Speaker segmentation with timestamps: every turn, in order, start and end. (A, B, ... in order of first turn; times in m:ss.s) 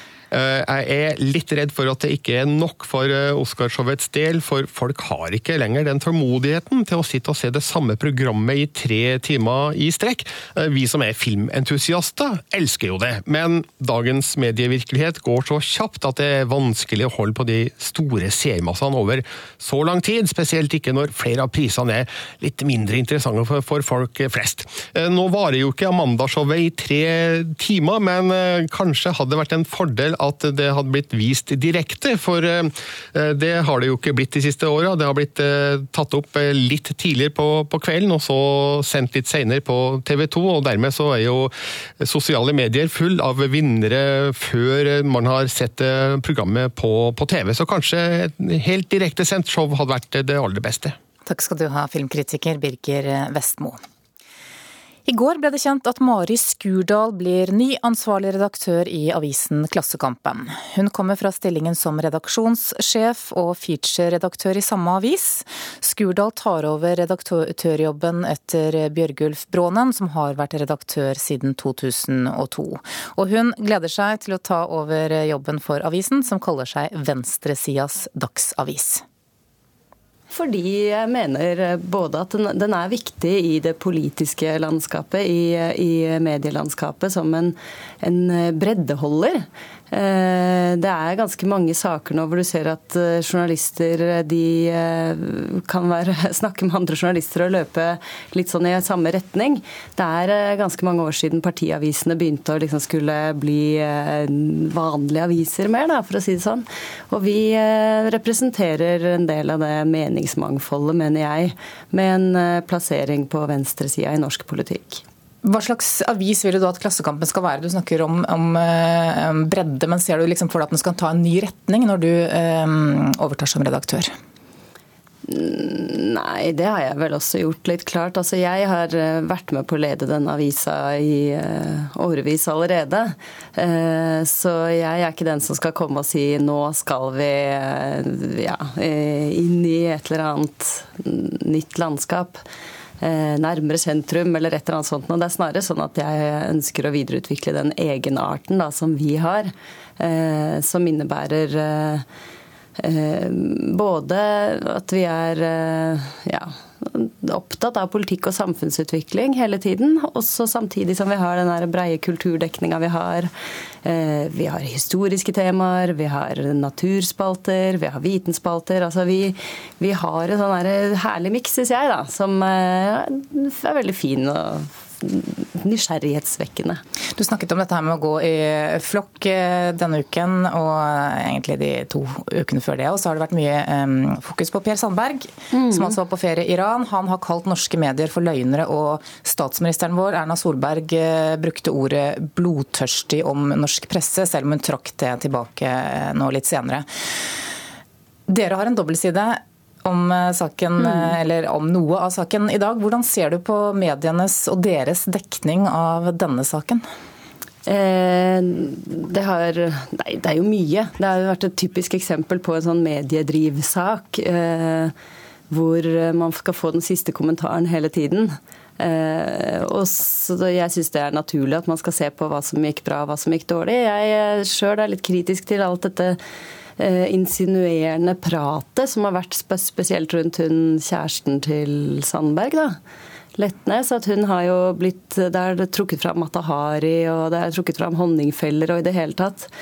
0:00.3-0:51.0 A
0:51.2-0:53.8 B
0:55.1-1:19.0 B
1:20.3-1:55.0 C
1:55.4-2:04.1 B
2:05.3-2:22.4 C
2:23.0-2:32.0 C
2:32.8-2:43.3 C
2:43.8-2:56.8 C
2:57.2-3:16.9 B
3:05.5-3:06.0 C
3:18.3-3:26.8 B
3:27.7-3:34.9 C
3:35.5-3:46.2 C
3:46.8-3:52.8 C
3:53.4-3:59.5 C